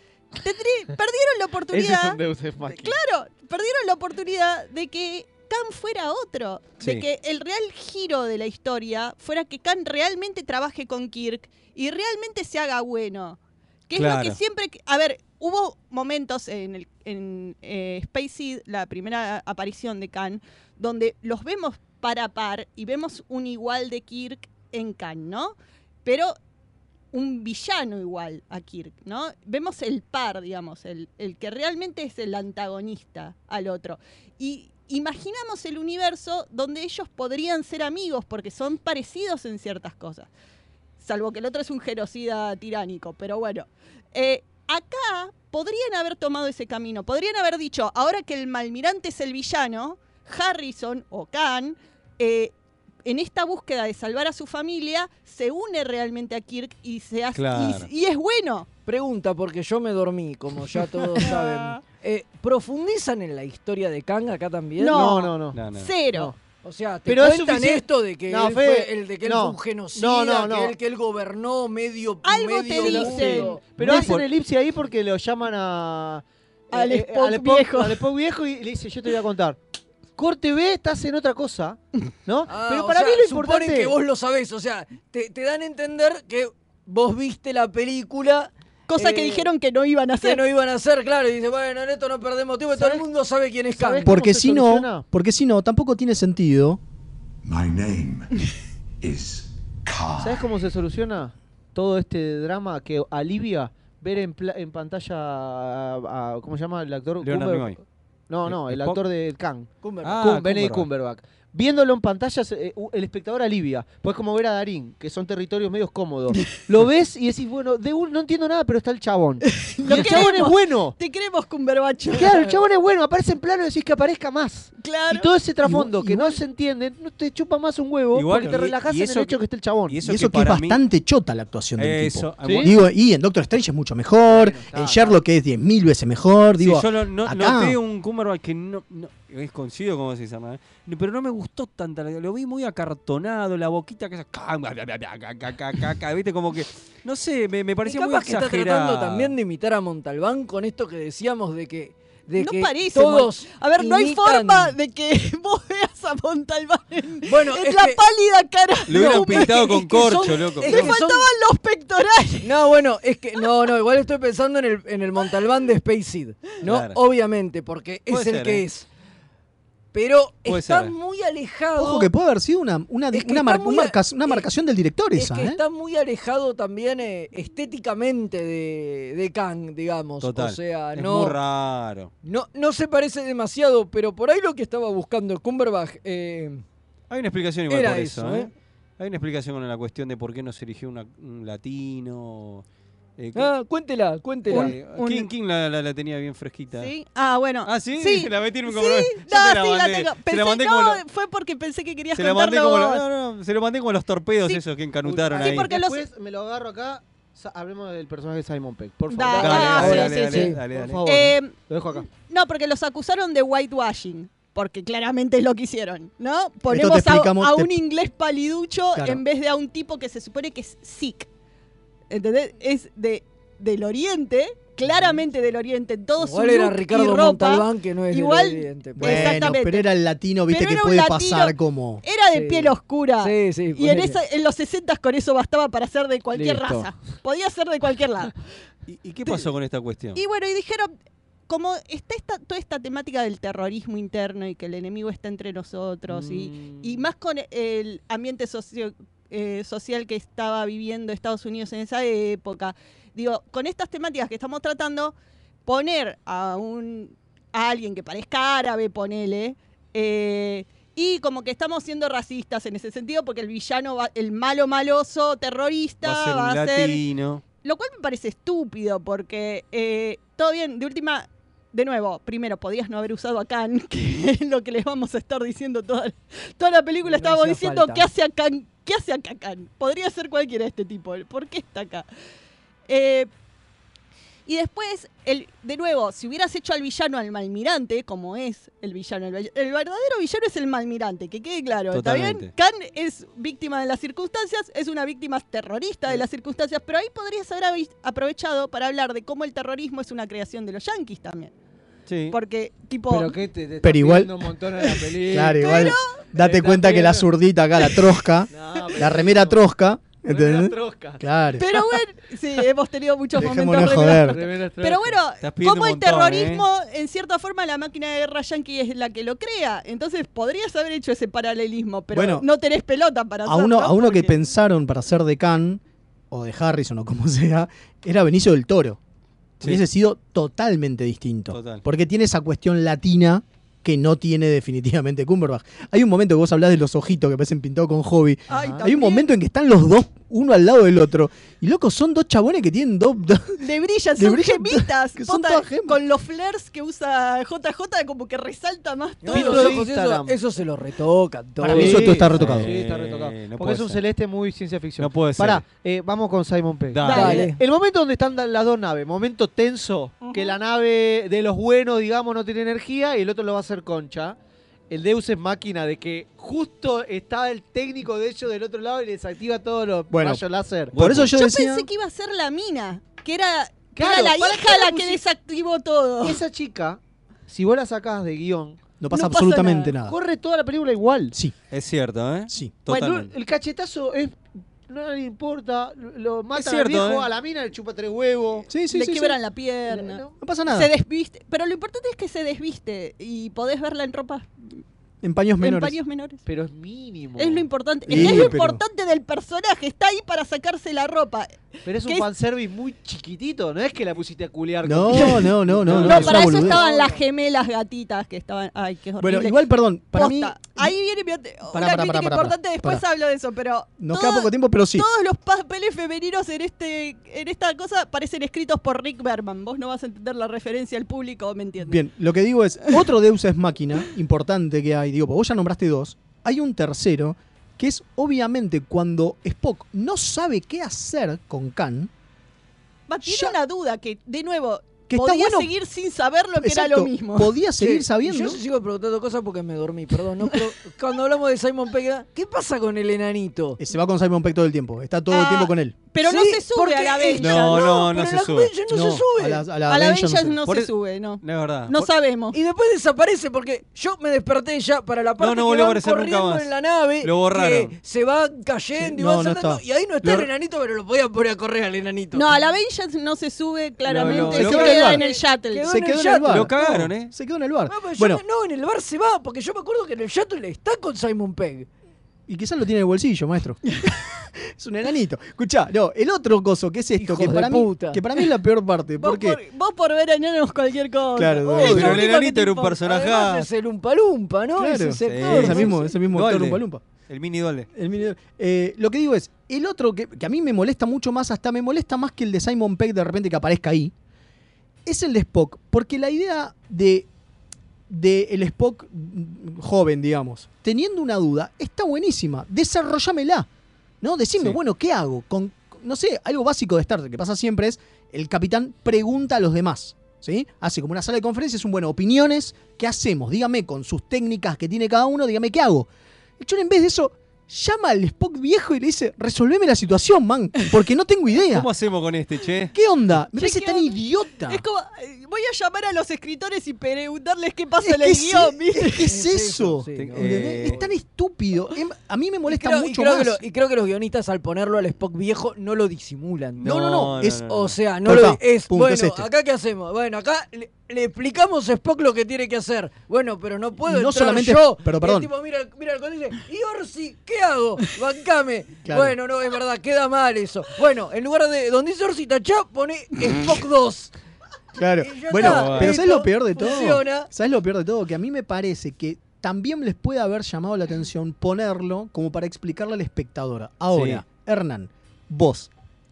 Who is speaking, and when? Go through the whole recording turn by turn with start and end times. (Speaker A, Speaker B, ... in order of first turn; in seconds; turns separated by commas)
Speaker A: 0.4-2.2, Speaker B: 1.7-3.0, Speaker A: 2.7-26.3, Speaker C: 13.9-14.4, Speaker A: 27.1-40.3, Speaker A: 41.0-52.5, Speaker A: 53.0-58.7, Speaker C: 57.3-57.9, Speaker D: 58.9-65.1, Speaker A: 61.2-61.8, Speaker A: 64.8-66.3, Speaker B: 64.9-66.3, Speaker C: 65.5-65.9, Speaker D: 66.6-73.6, Speaker B: 67.1-70.7, Speaker A: 72.2-73.6, Speaker B: 72.7-79.6, Speaker C: 73.8-74.2, Speaker A: 76.7-78.0, Speaker B: 80.2-83.9, Speaker D: 82.5-89.5, Speaker A: 88.9-90.4, Speaker D: 90.2-94.1, Speaker B: 92.7-93.0, Speaker B: 93.8-95.0, Speaker E: 94.0-96.8, Speaker F: 97.4-98.3, Speaker F: 99.0-100.5, Speaker B: 100.2-107.8, Speaker C: 107.2-107.8, Speaker B: 108.3-121.0, Speaker C: 108.4-109.0, Speaker D: 109.8-110.2, Speaker C: 110.0-110.9, Speaker A: 119.5-122.5, Speaker B: 122.1-129.9, Speaker A: 124.8-125.3, Speaker E: 125.6-126.4, Speaker C: 128.1-130.8, Speaker E: 130.0-137.8, Speaker C: 131.8-132.7, Speaker B: 132.4-132.7, Speaker B: 134.2-135.2, Speaker C: 136.6-149.3, Speaker D: 147.8-154.7, Speaker A: 152.3-159.8, Speaker D: 157.2-158.0, Speaker C: 158.9-160.9, Speaker D: 158.9-161.3, Speaker A: 160.6-162.5, Speaker D: 162.4-168.9, Speaker C: 166.6-167.0, Speaker C: 168.1-168.6, Speaker D: 169.9-172.1, Speaker C: 170.4-170.9, Speaker E: 171.8-175.6, Speaker D: 173.1-174.4, Speaker D: 175.1-181.4, Speaker C: 180.2-182.1, Speaker D: 182.2-186.6, Speaker C: 187.1-192.6, Speaker D: 187.7-188.5, Speaker C: 193.2-193.5, Speaker D: 193.3-194.7, Speaker C: 194.5-196.9, Speaker A: 194.5-195.3, Speaker A: 196.7-203.0, Speaker C: 197.7-201.0, Speaker C: 202.1-205.7, Speaker B: 205.0-212.1, Speaker A: 205.3-206.0, Speaker A: 209.1-210.4, Speaker C: 209.3-211.0, Speaker D: 210.2-210.6, Speaker A: 211.0-221.3, Speaker E: 216.7-217.8, Speaker E: 218.9-219.2, Speaker A: 222.1-229.9, Speaker D: 226.2-229.5, Speaker E: 229.0-232.0, Speaker A: 230.5-238.3, Speaker D: 232.3-234.2, Speaker D: 236.3-236.8, Speaker B: 236.5-236.8, Speaker C: 238.9-240.2, Speaker A: 240.1-240.9, Speaker A: 241.5-255.1, Speaker B: 246.1-247.1, Speaker A: 255.7-267.0, Speaker C: 266.0-267.4, Speaker A: 267.6-282.1, Speaker D: 277.0-278.1, Speaker A: 282.9-283.3, Speaker A: 284.4-301.5, Speaker C: 291.9-292.5, Speaker C: 302.1-302.4, Speaker A: 302.3-303.3, Speaker B: 303.1-307.3, Speaker E: 303.8-304.3, Speaker E: 305.2-311.8, Speaker A: 305.6-306.2, Speaker B: 308.5-309.6, Speaker B: 310.3-311.2, Speaker A: 311.6-324.3, Speaker E: 313.3-314.4, Speaker B: 314.0-315.2, Speaker C: 315.4-316.7, Speaker E: 322.1-322.4, Speaker E: 323.4-329.0, Speaker E: 329.6-343.6, Speaker C: 331.5-331.8, Speaker A: 338.5-339.3, Speaker B: 338.5-338.9, Speaker A: 343.6-349.7, Speaker E: 344.2-346.0, Speaker D: 349.2-352.2, Speaker B: 349.3-350.4, Speaker E: 351.6-352.7, Speaker B: 351.7-364.4, Speaker C: 352.3-354.0, Speaker C: 355.0-355.6, Speaker C: 356.9-357.4, Speaker D: 357.0-357.6, Speaker A: 357.1-357.5, Speaker B: 364.9-371.0, Speaker E: 370.1-371.9, Speaker C: 370.9-371.3, Speaker A: 371.3-376.4, Speaker B: 373.9-375.2, Speaker B: 376.2-378.8, Speaker E: 379.0-380.1, Speaker A: 379.1-379.9, Speaker B: 380.0-381.3, Speaker C: 381.7-383.3, Speaker E: 382.5-382.7, Speaker B: 382.9-388.7, Speaker C: 386.5-387.3, Speaker E: 388.7-389.4, Speaker A: 388.9-394.8, Speaker B: 389.9-390.3, Speaker E: 390.4-390.9, Speaker E: 395.2-396.0, Speaker A: 395.6-396.4, Speaker B: 396.4-398.5, Speaker A: 397.4-402.2, Speaker E: 398.1-398.8, Speaker B: 401.9-407.0, Speaker E: 404.8-406.8, Speaker C: 405.8-406.1, Speaker A: 406.0-409.6, Speaker E: 409.2-410.9, Speaker A: 410.1-422.0, Speaker E: 411.7-413.0, Speaker E: 414.0-415.1, Speaker E: 421.8-432.1, Speaker A: 433.1-437.5, Speaker E: 433.2-433.6, Speaker E: 435.1-435.7, Speaker E: 436.6-438.6, Speaker D: 437.8-443.8, Speaker E: 443.8-445.9, Speaker A: 445.3-448.0, Speaker D: 446.2-449.6, Speaker C: 447.4-448.7, Speaker E: 448.9-450.6, Speaker A: 449.8-452.5, Speaker C: 450.6-452.1, Speaker D: 452.5-462.5, Speaker C: 455.4-457.9, Speaker E: 459.0-460.5, Speaker A: 462.3-466.0, Speaker C: 464.1-465.1, Speaker D: 464.2-467.1, Speaker E: 464.2-465.2, Speaker E: 465.8-468.4, Speaker C: 466.5-467.3, Speaker D: 467.9-471.9, Speaker E: 472.5-479.6, Speaker D: 477.1-478.2, Speaker A: 479.2-483.0, Speaker E: 481.4-482.2, Speaker C: 481.7-483.7, Speaker D: 483.0-486.0, Speaker E: 484.8-487.0, Speaker C: 485.2-487.9, Speaker E: 487.9-494.1, Speaker E: 495.1-497.3, Speaker E: 498.1-503.7, Speaker E: 504.2-516.1, Speaker E: 516.6-521.9, Speaker C: 521.7-522.9, Speaker E: 522.9-524.8, Speaker A: 523.5-529.3, Speaker E: 528.0-533.6, Speaker D: 529.2-531.1, Speaker C: 530.1-531.0, Speaker D: 532.7-554.3, Speaker C: 536.8-538.0, Speaker E: 536.8-537.6, Speaker E: 538.2-539.5, Speaker E: 544.0-545.5, Speaker E: 549.0-549.4, Speaker E: 555.0-565.9, Speaker D: 555.2-557.5, Speaker C: 555.6-556.1, Speaker C: 564.1-564.4